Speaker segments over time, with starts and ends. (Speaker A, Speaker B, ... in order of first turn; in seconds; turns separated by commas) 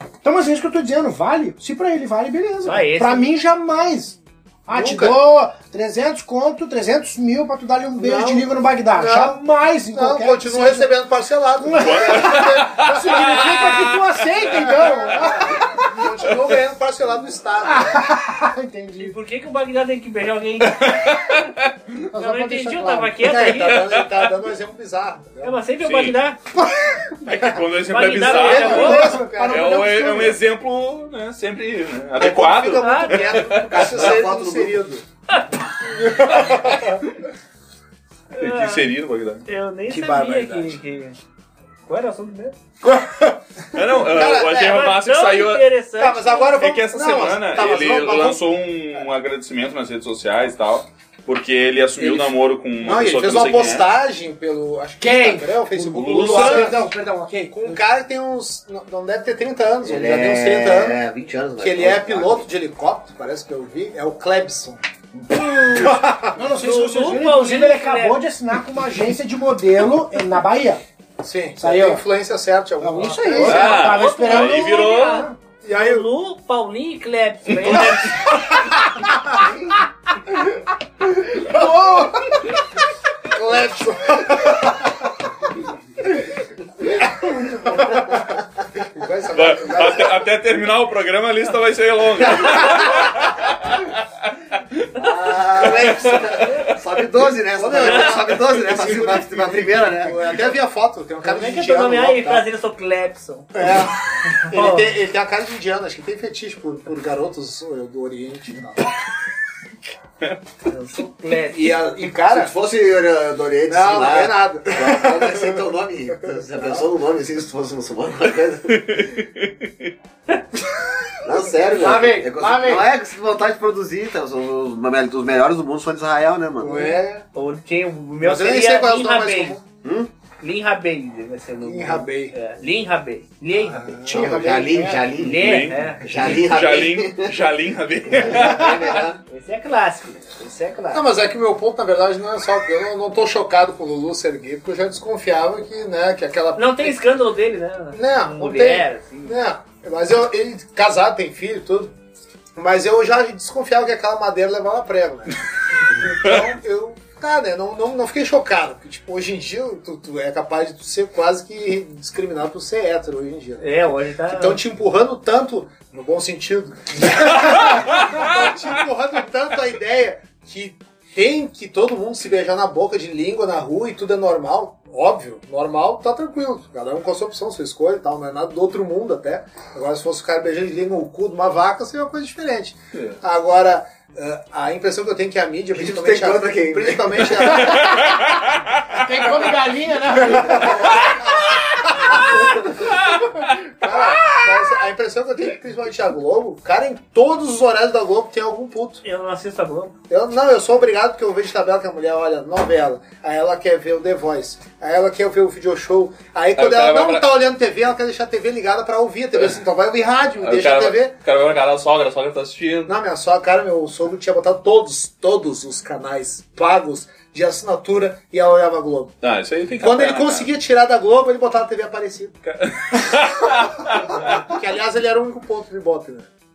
Speaker A: 0.2-10.9, Speaker B: 2.6-3.3, Speaker C: 4.7-5.2, Speaker C: 8.0-13.4, Speaker A: 11.6-16.0, Speaker D: 11.8-14.0, Speaker C: 14.5-18.2, Speaker A: 17.7-19.2, Speaker B: 19.0-21.3, Speaker D: 20.6-21.7, Speaker B: 22.1-23.9, Speaker A: 22.1-23.0, Speaker C: 22.3-25.6, Speaker D: 23.7-24.3, Speaker B: 25.4-26.4, Speaker D: 25.8-26.2, Speaker D: 27.2-34.2, Speaker B: 27.9-29.3, Speaker C: 28.2-30.4, Speaker A: 28.9-30.3, Speaker C: 32.2-35.0, Speaker B: 32.6-33.5, Speaker E: 33.7-34.8, Speaker B: 35.3-35.6, Speaker C: 35.9-37.0, Speaker B: 38.4-38.9, Speaker D: 38.4-39.5, Speaker B: 39.5-41.2, Speaker C: 39.9-40.8, Speaker B: 41.9-42.6, Speaker C: 42.9-44.9, Speaker D: 43.7-45.7, Speaker B: 44.6-46.5, Speaker C: 46.0-49.0, Speaker D: 46.5-53.9, Speaker C: 52.0-52.3, Speaker C: 52.8-56.8, Speaker A: 55.0-57.8, Speaker D: 55.9-56.8, Speaker C: 57.5-61.0, Speaker E: 59.8-62.4, Speaker C: 61.6-64.8, Speaker B: 65.5-65.9, Speaker C: 65.7-66.3, Speaker A: 66.3-70.8, Speaker B: 66.5-68.3, Speaker C: 71.2-73.8, Speaker A: 71.6-72.0, Speaker A: 72.8-75.4, Speaker B: 73.3-78.5, Speaker D: 73.4-75.3, Speaker C: 75.6-76.1, Speaker C: 78.6-79.4, Speaker C: 81.1-82.5, Speaker C: 83.3-85.1, Speaker C: 86.8-90.2, Speaker D: 89.3-94.9, Speaker C: 92.2-93.2, Speaker E: 95.0-100.4, Speaker C: 95.6-96.1, Speaker D: 95.6-96.8, Speaker C: 97.5-102.5, Speaker B: 97.8-98.2, Speaker B: 101.2-103.8, Speaker C: 103.5-108.9, Speaker B: 104.3-104.9, Speaker B: 110.7-111.7, Speaker C: 111.3-112.5, Speaker E: 112.3-119.1, Speaker C: 113.7-116.9, Speaker D: 118.7-119.9, Speaker E: 121.2-127.0, Speaker A: 121.8-122.9, Speaker C: 126.6-127.3, Speaker B: 127.3-129.6, Speaker C: 128.2-129.6, Speaker E: 129.8-130.1, Speaker B: 130.4-134.2, Speaker C: 131.6-132.3, Speaker C: 133.7-134.5, Speaker A: 134.1-135.1, Speaker E: 134.1-137.4, Speaker B: 135.2-136.1, Speaker D: 135.2-139.0, Speaker E: 138.1-139.2, Speaker B: 138.6-141.1, Speaker C: 140.9-147.0, Speaker B: 146.6-149.4, Speaker C: 147.9-151.9, Speaker C: 152.6-155.4, Speaker C: 155.9-188.2, Speaker B: 163.6-164.6, Speaker E: 185.8-187.7, Speaker D: 187.7-188.8, Speaker A: 188.9-191.0, Speaker C: 190.2-191.3, Speaker C: 191.8-192.9, Speaker C: 193.7-199.0, Speaker D: 193.9-194.5, Speaker B: 199.0-199.9, Speaker C: 200.1-211.2, Speaker D: 206.6-207.3, Speaker D: 210.4-212.9, Speaker C: 212.9-219.2, Speaker D: 219.2-220.5, Speaker C: 219.8-222.4, Speaker D: 222.4-224.4, Speaker C: 224.1-226.3